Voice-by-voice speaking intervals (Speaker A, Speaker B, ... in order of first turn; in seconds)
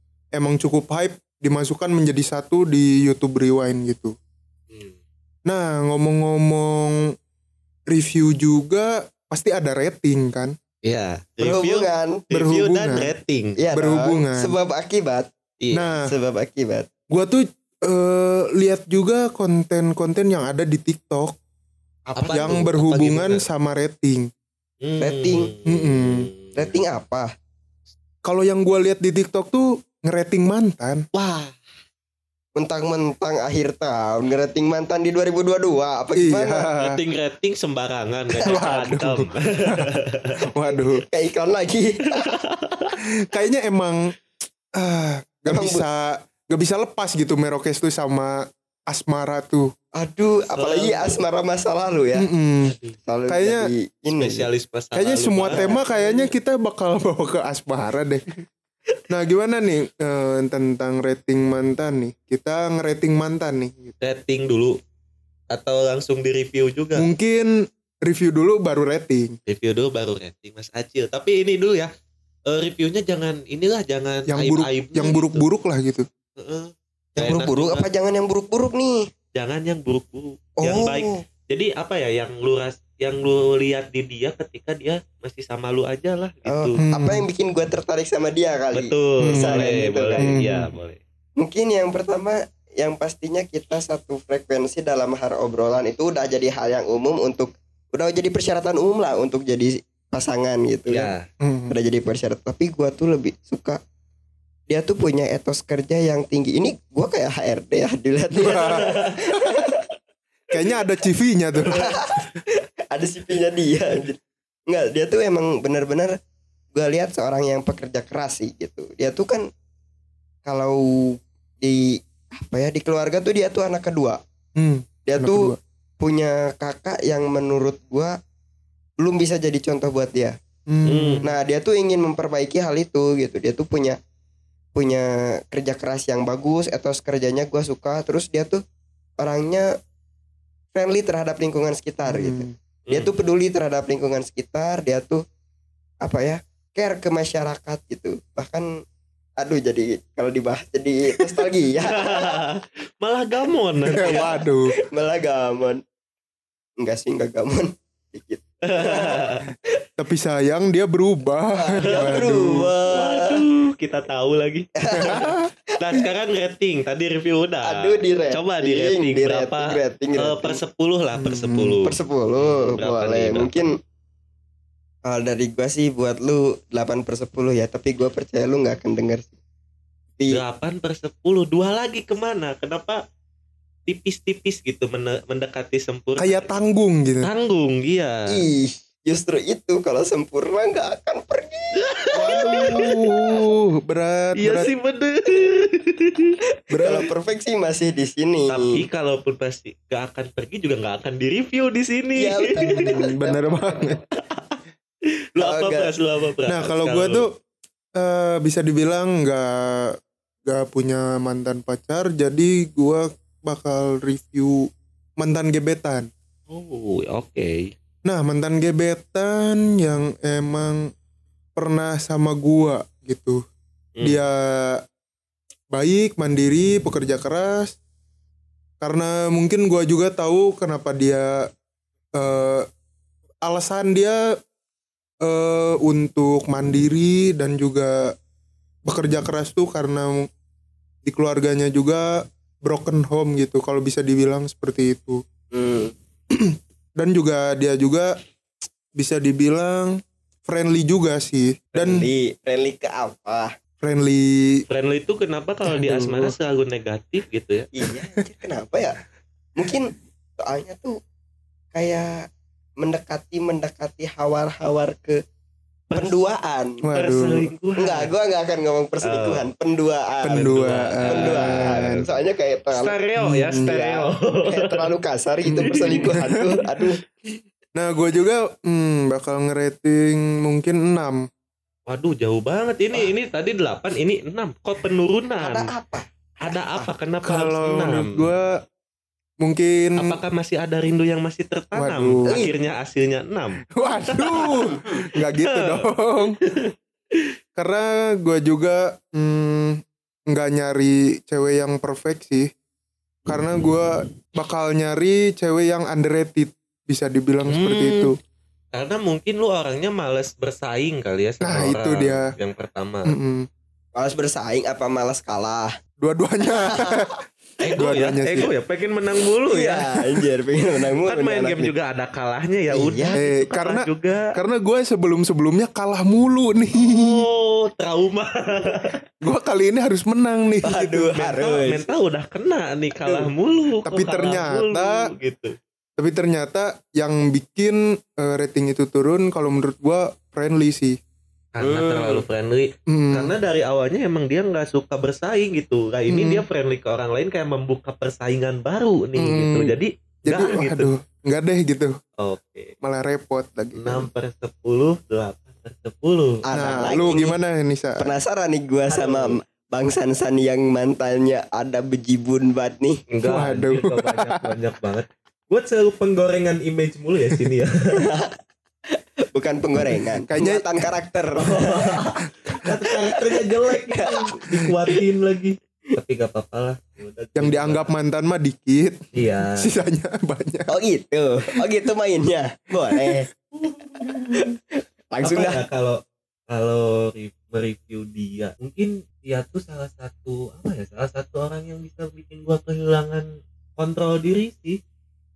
Speaker A: 0.3-4.1, 5.5-7.1, 7.9-10.5, 12.3-13.1, 13.7-14.6, 15.7-16.1, 17.1-21.3, 22.3-24.3, 25.6-26.3, 28.2-31.0, 36.1-37.0, 38.4-39.9, 40.5-41.0, 43.1-44.1, 44.7-49.7, 52.1-52.7, 53.3-53.6, 54.9-58.4, 59.1-63.9, 67.0-69.4, 74.3-76.0, 86.8-87.2, 89.2-89.6, 90.2-90.7, 101.4-101.7, 108.3-109.5, 110.5-112.3, 124.5-125.6, 130.7-131.3, 142.1-142.5, 153.9-154.7, 160.0-162.7, 165.0-165.4, 171.2-171.8, 186.2-187.3, 192.1-194.7, 196.7-197.1, 202.6-204.0, 206.4-207.3, 207.9-209.9, 210.5-216.1, 218.0-220.9, 221.6-223.4, 224.0-224.8, 225.7-227.7, 228.8-231.5, 232.2-232.6, 233.4-234.2, 235.2-238.1, 238.8-240.3, 241.0-245.2, 246.3-248.2, 248.9-252.1, 253.8-254.6, 255.6-256.3, 266.8-267.5, 270.2-272.0, 273.2-273.7, 275.4-276.1, 277.7-281.2, 287.2-288.5, 289.4-290.2, 291.7-292.5, 293.7-296.4, 297.6-299.8, 300.3-302.5, 303.3-308.1, 311.4-312.3, 313.1-313.4, 316.0-317.2, 317.8-318.5, 323.1-327.2, 329.2-331.2, 333.9-335.1, 336.0-340.9, 342.9-343.4, 346.1-346.4, 349.1-349.7, 350.3-351.9, 352.8-354.1, 356.5-358.1, 363.2-364.6, 370.2-370.7, 377.4-379.0, 379.5-380.7
Speaker B: 4.7-5.0, 10.8-13.6, 15.6-16.0, 22.1-23.4, 24.8-26.8, 31.1-31.6, 36.8-40.3, 42.1-42.9, 50.5-51.2, 52.6-53.0, 54.1-55.7, 64.0-64.8, 65.5-67.1, 69.5-71.9, 72.5-75.4, 76.4-77.8, 79.3-86.8, 88.7-91.0, 100.9-101.3, 108.8-109.2, 130.8-131.3, 142.9-143.1, 152.0-154.4, 158.7-159.4, 161.8-162.3, 162.9-173.5, 180.3-183.0, 183.8-186.6, 187.2-188.2, 191.7-193.3, 194.4-196.3, 198.5-202.9, 204.2-204.5, 205.3-207.3, 216.5-217.7, 223.9-224.2, 254.7-257.7, 265.9-266.3, 266.9-268.1, 269.0-269.5, 270.3-272.1, 272.7-274.9, 275.6-276.1, 281.9-285.7, 286.4-288.3, 290.0-294.5, 295.4-295.8, 296.4-296.7, 307.5-308.1, 308.7-313.2, 317.6-319.9, 321.1-324.3, 326.8-329.0, 331.1-335.5, 341.5-350.9, 352.2-352.7, 353.8-356.5, 358.9-359.4, 363.1-367.7, 371.4-377.9, 379.1-379.6, 383.6-384.0, 385.2-386.0, 386.5-393.2, 393.8-394.8
Speaker C: 11.4-12.4, 13.6-15.3, 16.1-16.9, 22.1-22.7, 25.0-25.5, 26.5-27.3, 32.5-36.7, 38.4-38.9, 41.0-42.3, 45.5-45.9, 49.9-52.3, 53.0-54.5, 55.5-56.3, 77.2-79.0, 80.6-81.2, 86.5-90.3, 91.4-101.1, 101.7-103.8, 104.7-109.8, 111.7-112.4, 112.9-116.1, 116.7-119.4, 120.4-124.2, 125.1-128.2, 129.0-130.3, 131.2-134.0, 134.7-138.6, 139.2-139.7, 140.7-145.2, 146.0-148.7, 149.4-152.4, 154.0-155.8, 156.8-159.3, 161.6-163.4, 164.8-165.3, 167.6-170.6, 171.8-173.7, 175.0-179.3, 188.3-193.0, 196.8-198.8, 202.2-203.9, 205.4-205.9, 245.5-245.9, 251.9-253.5, 257.7-259.0, 259.6-260.9, 261.7-262.2, 262.8-265.2, 265.9-266.8, 267.8-270.4, 271.1-273.0, 273.6-277.0, 285.4-286.9, 292.3-292.5, 313.9-315.7, 316.6-317.0, 319.4-321.7, 322.7-323.2, 330.6-331.9, 341.6-342.2, 356.4-357.4, 358.0-363.0, 367.9-368.3, 368.9-372.0, 373.0-374.8, 380.7-383.3, 384.3-385.6